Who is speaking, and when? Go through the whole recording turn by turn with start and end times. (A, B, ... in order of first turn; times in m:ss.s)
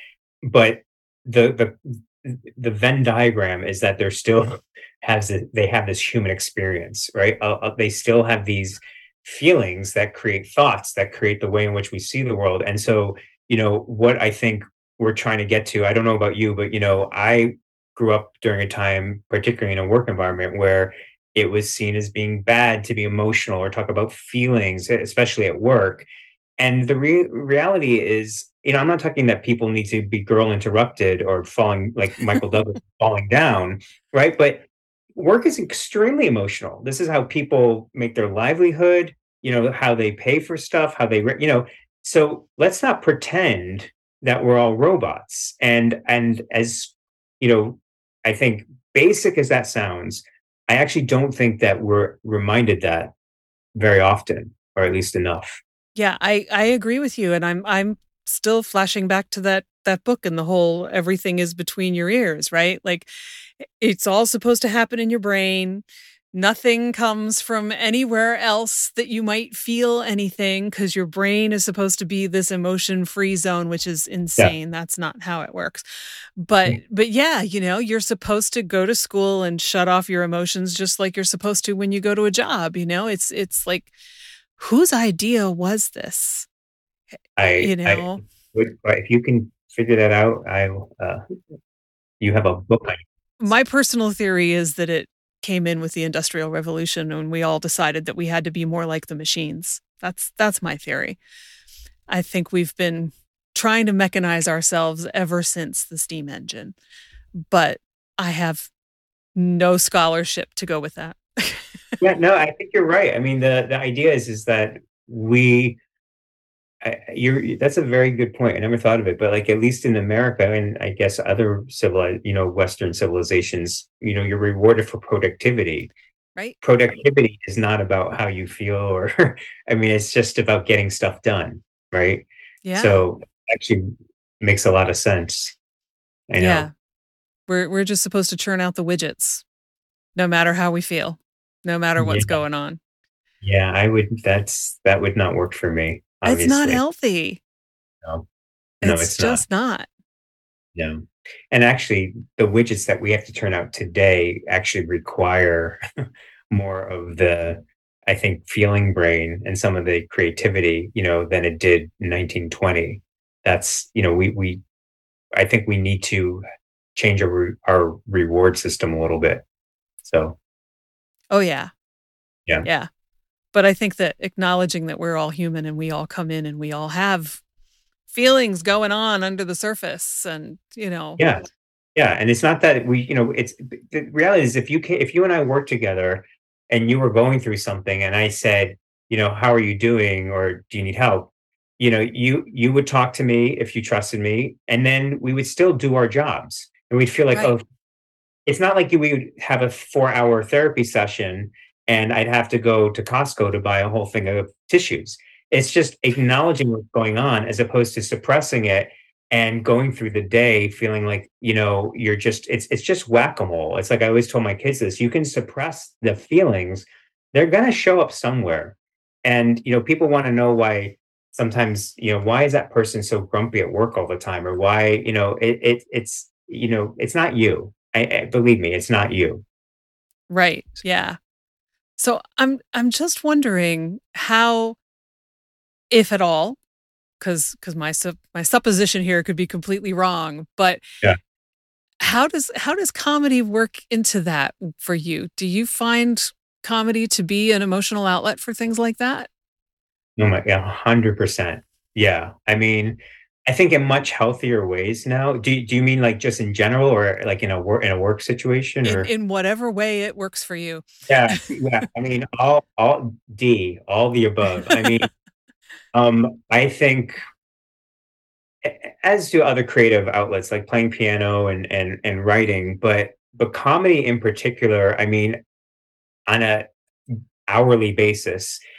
0:00.4-0:26.1 A
0:26.6-0:53.1 A
0:53.8-0:55.6 A
0:56.0-1:03.1 B
1:03.6-1:15.8 B
1:16.4-1:23.9 B
1:24.6-1:26.5 B
1:27.4-1:31.2 A
1:27.4-1:28.2 B
1:32.2-1:33.0 A
1:33.4-1:41.2 B
1:42.1-1:46.8 B
1:47.4-1:48.7 B
1:49.4-1:51.8 B
1:52.0-1:55.8 A
1:56.8-2:05.9 A
2:06.6-2:15.6 A
2:12.6-2:13.0 B
2:16.3-2:16.7 A
2:16.4-2:16.7 B
2:17.5-2:19.4 B
2:20.2-2:22.8 B
2:22.0-2:22.4 A
2:23.4-2:26.8 A
2:26.2-2:27.4 B
2:28.8-2:29.4 A
2:28.8-2:29.9 B
2:30.8-2:35.8 A
2:36.5-2:44.6 A
2:45.3-2:46.4 A
2:47.0-2:49.4 A
2:50.0-2:50.4 A
2:51.3-2:51.7 B
2:52.6-2:52.9 B
2:53.5-2:57.4 B
2:58.1-3:01.2 B
3:01.2-3:01.4 A
3:02.0-3:17.6 A
3:18.5-3:49.4 A
3:50.3-3:51.2 B
3:52.0-3:54.8 B
3:55.9-3:56.6 B
3:57.2-4:00.8 B
4:02.0-4:09.3 B
4:10.2-4:19.1 A
4:18.8-4:21.5 B
4:21.1-4:25.1 A
4:24.6-4:25.1 B
4:25.9-4:27.2 A
4:28.6-4:35.4 A
4:36.3-4:38.6 A